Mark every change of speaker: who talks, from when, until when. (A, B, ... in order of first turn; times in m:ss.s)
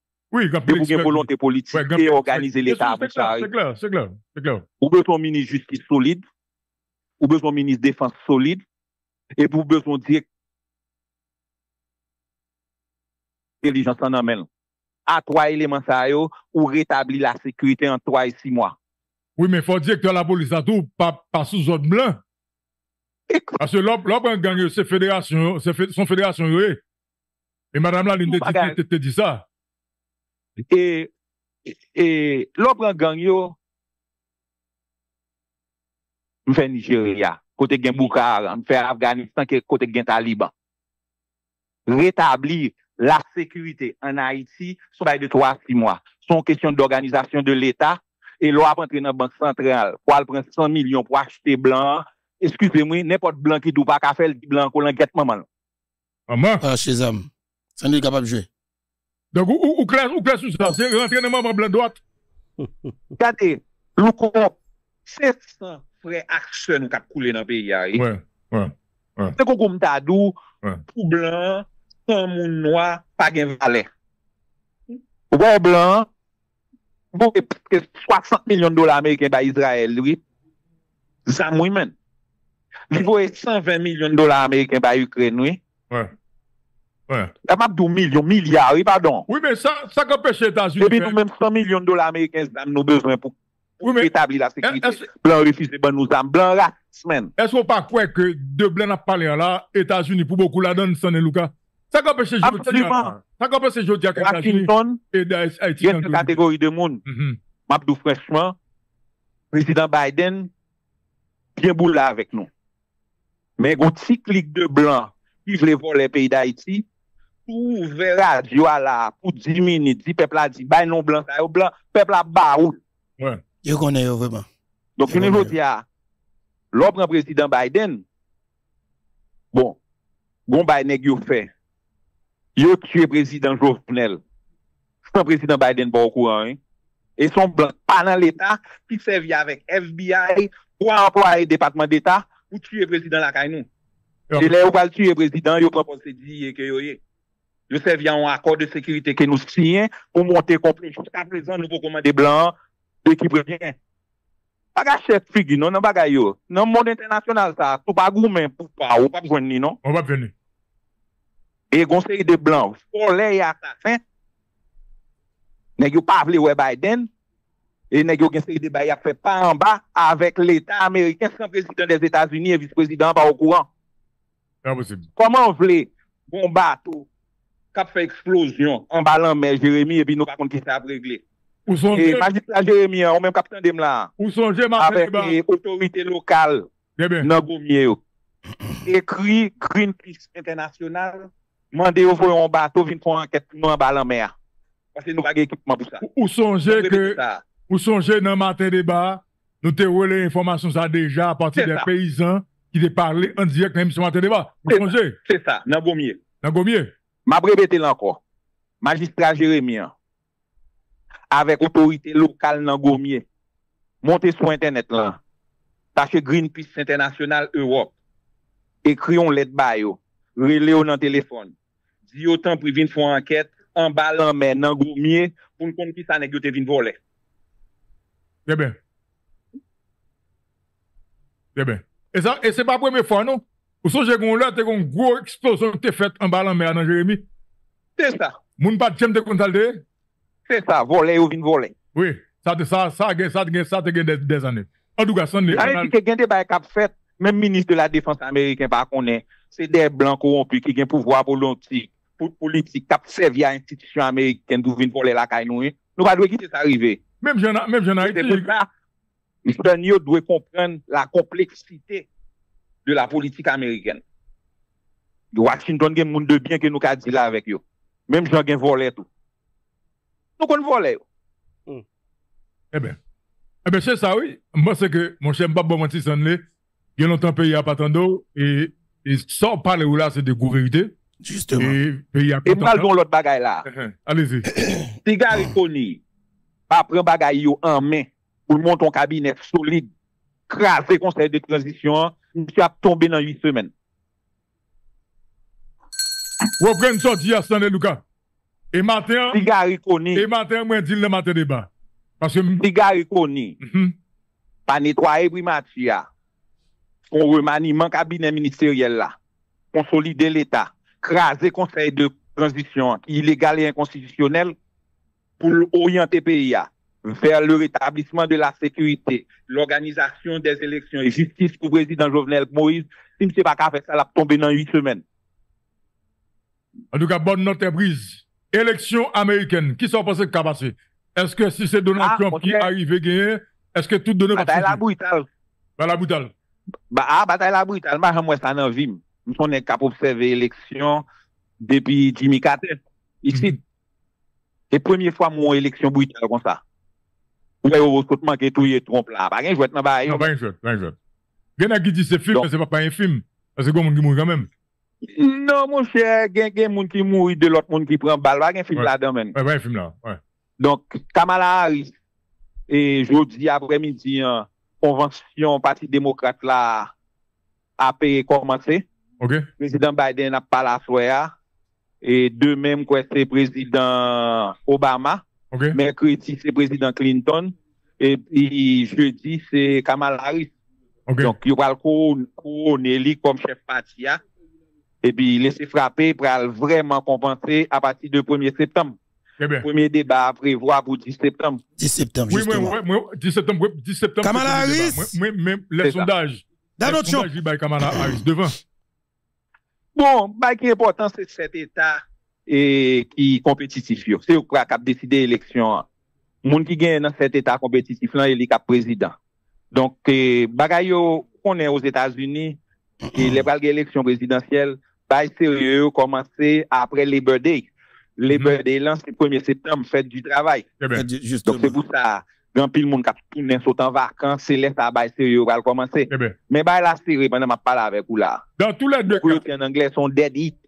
0:00.3-0:04.6 A
0:00.7-0:03.5 B
0:04.8-0:06.2 B
0:07.2-0:08.6 B
0:09.4-0:10.2 B
0:13.6-0:14.5 B
0:15.1-0:18.8 B
0:19.4-0:22.2 A
0:23.3-0:23.6 B
0:23.6-0:26.8 A
0:27.7-0:29.4 A
0:28.2-0:28.8 B
0:30.7-0:31.1 B
0:31.7-0:33.6 B
0:36.5-0:40.5 B
0:41.9-0:55.5 B
0:56.3-0:56.6 A
0:56.6-0:58.5 C
0:59.3-1:02.0 A
1:03.2-1:08.0 B
1:08.0-1:09.4 A
1:09.4-1:10.4 B
1:10.9-1:13.9 B
1:15.3-1:16.1 B
1:17.1-1:20.2 B
1:21.3-1:21.9 B
1:22.9-1:25.6 B
1:27.5-1:29.3 B
1:29.3-1:31.2 A
1:30.8-1:37.3 B
1:33.8-1:34.1 A
1:34.6-1:35.0 A
1:37.4-1:46.4 A
1:42.4-1:43.2 B
1:44.2-1:45.0 B
1:45.8-1:47.0 B
1:47.1-1:47.4 A
1:47.7-1:48.6 B
1:49.5-1:50.5 B
1:51.6-1:52.5 B
1:53.6-1:56.9 B
1:57.5-2:02.8 B
2:03.6-2:04.5 C
2:05.0-2:05.8 B
2:05.1-2:05.5 C
2:06.7-2:08.0 B
2:09.5-2:09.8 B
2:10.5-2:11.5 B
2:12.6-2:14.2 B
2:15.1-2:16.6 B
2:17.2-2:23.7 B
2:24.4-2:27.0 B
2:27.7-2:33.8 B
2:34.8-2:39.8 B
2:39.8-2:40.3 A
2:41.7-2:44.0 B
2:45.8-2:47.1 B
2:47.9-2:53.7 B
2:54.6-2:55.1 A
2:55.2-2:57.1 B
2:57.7-3:01.2 B
3:01.7-3:02.2 A
3:01.9-3:04.1 B
3:04.2-3:05.4 A
3:04.8-3:06.7 B
3:07.0-3:07.3 A
3:07.2-3:08.0 B
3:08.8-3:14.3 B
3:15.0-3:16.0 B
3:16.0-3:17.2 A
3:16.6-3:17.4 B
3:17.7-3:25.2 A
3:21.6-3:21.9 B
3:24.7-3:26.2 B
3:26.4-3:26.9 A
3:27.3-3:28.2 B
3:28.8-3:29.9 B
3:31.3-3:33.2 B
3:34.0-3:35.2 B
3:36.0-3:37.9 B
3:38.8-3:41.5 B
3:42.1-3:47.0 B
3:48.5-3:48.8 A
3:51.6-3:57.2 A
3:58.0-3:58.4 B
3:58.6-3:59.8 A
4:00.5-4:01.7 B
4:02.0-4:05.9 A
4:05.5-4:17.0 B
4:17.2-4:18.5 A
4:18.0-4:18.7 B
4:19.4-4:22.1 B
4:22.8-4:24.0 B
4:25.3-4:29.1 B
4:30.4-4:31.0 B
4:33.6-4:36.4 A
4:37.0-4:40.9 A
4:41.2-4:41.8 C
4:41.6-4:42.9 A
4:42.5-4:43.7 B
4:43.7-4:44.5 A
4:45.0-4:46.0 B
4:46.7-4:49.9 B
4:50.5-4:53.7 B
4:56.6-4:58.0 A
4:58.7-4:59.4 A
4:59.3-5:00.2 B
5:00.2-5:01.7 A
5:02.2-5:02.6 A
5:02.6-5:03.6 B
5:03.6-5:03.9 A
5:04.7-5:06.1 B
5:07.1-5:09.1 B
5:09.7-5:14.6 B
5:15.4-5:25.0 B
5:26.9-5:34.8 A
5:32.0-5:32.7 B
5:34.4-5:35.3 B
5:35.8-5:36.3 A
5:36.9-5:41.0 B
5:41.6-5:43.6 B
5:43.3-5:43.6 A
5:44.7-5:46.6 B
5:47.6-5:50.3 B
5:50.1-5:51.0 A
5:51.6-5:54.5 A
5:55.1-5:59.4 B
5:58.8-6:00.2 A
6:00.6-6:01.9 B
6:02.7-6:06.9 B
6:07.8-6:08.8 B
6:09.2-6:09.5 A
6:09.6-6:11.3 B
6:12.0-6:20.5 B
6:15.5-6:15.8 A
6:21.1-6:21.3 A
6:21.2-6:24.2 B
6:25.0-6:29.0 B
6:29.4-6:29.7 A
6:29.6-6:31.6 B
6:31.8-6:32.8 C
6:32.3-6:38.6 A
6:34.2-6:35.2 C
6:35.8-6:36.1 B
6:36.8-6:37.3 C
6:37.8-6:38.2 C
6:40.0-6:45.8 B
6:46.4-6:49.2 B
6:49.7-6:52.6 B
6:53.1-7:00.7 B
6:58.3-6:58.6 A
7:00.9-7:01.8 C
7:01.5-7:08.4 B
7:06.1-7:06.4 A
7:08.6-7:09.4 A
7:09.1-7:10.6 B